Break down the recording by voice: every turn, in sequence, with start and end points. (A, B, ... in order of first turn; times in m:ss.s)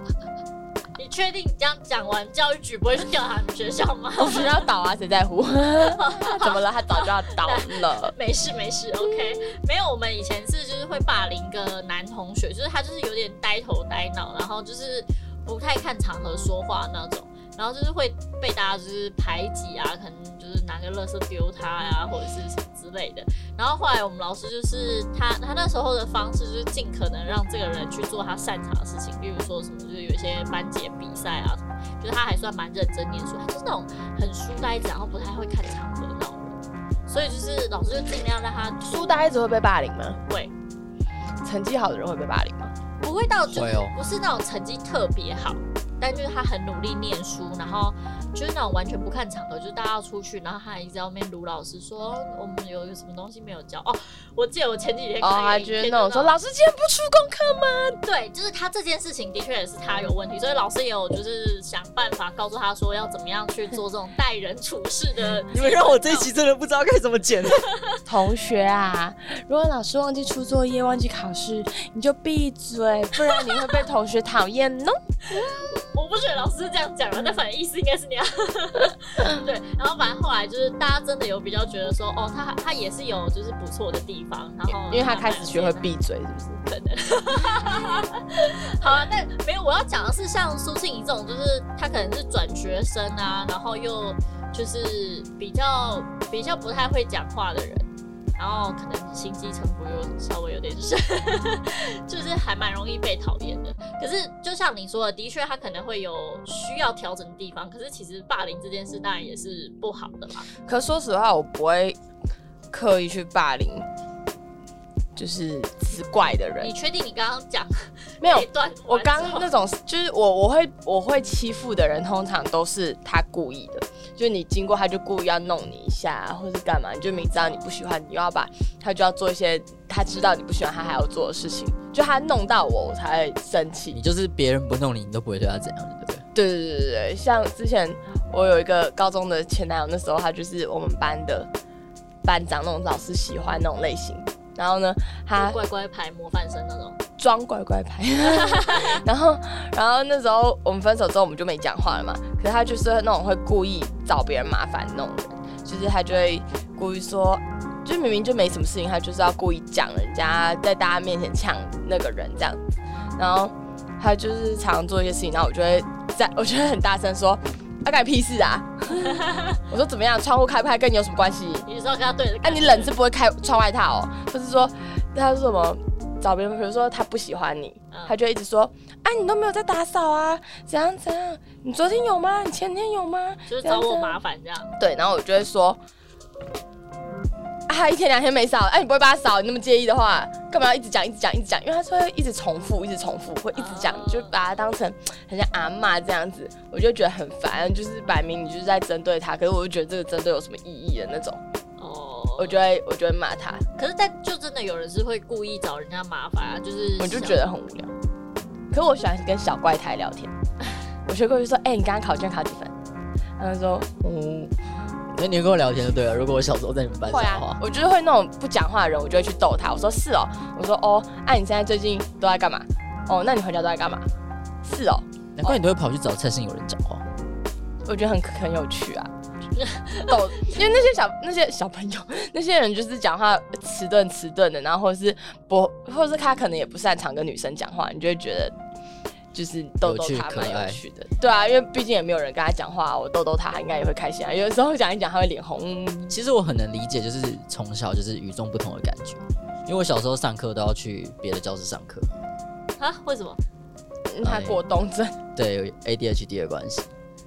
0:01.0-0:04.7 A
0:04.2-0:08.1 B
0:05.8-0:39.2 A
0:38.8-0:40.2 B
0:40.3-0:40.5 A
0:41.4-0:42.7 B
0:43.0-0:56.4 A
0:43.5-0:44.0 C
0:55.2-0:58.0 B
0:58.0-1:06.3 A
1:05.5-1:07.7 C
1:08.1-1:15.0 B
1:13.3-1:13.8 A
1:15.3-1:25.9 A
1:24.7-1:26.6 B
1:26.6-1:50.5 A
1:50.6-1:52.0 B
1:52.7-1:53.9 B
1:55.2-1:56.7 B
1:56.6-1:59.5 A
1:58.2-2:14.0 B
2:07.3-2:07.7 A
2:13.9-2:16.2 C
2:16.4-2:21.5 B
2:22.2-2:25.6 B
2:25.4-2:27.0 A
2:27.2-2:42.6 B
2:28.2-2:29.0 A
2:43.2-2:51.7 B
2:48.9-2:49.6 A
2:51.7-2:52.9 A
2:52.4-3:04.2 B
3:03.5-3:04.8 A
3:04.8-3:05.8 B
3:07.7-3:21.4 B
3:13.5-3:14.4 A
3:21.8-3:22.6 A
3:22.4-3:23.6 B
3:23.8-3:27.4 A
3:27.0-3:27.9 B
3:28.7-3:30.3 B
3:31.1-3:32.7 B
3:33.4-3:34.5 B
3:35.1-3:37.6 C
3:37.1-3:44.1 B
3:44.6-3:45.6 B
3:45.4-3:47.0 C
3:47.9-3:49.1 B
3:49.6-3:50.6 A
3:50.1-3:58.6 B
3:59.3-4:06.2 B
3:59.8-4:00.8 C
4:06.1-4:12.1 C
4:12.8-4:13.4 A
4:14.1-4:15.2 B
4:14.2-4:14.6 C
4:15.4-4:16.9 C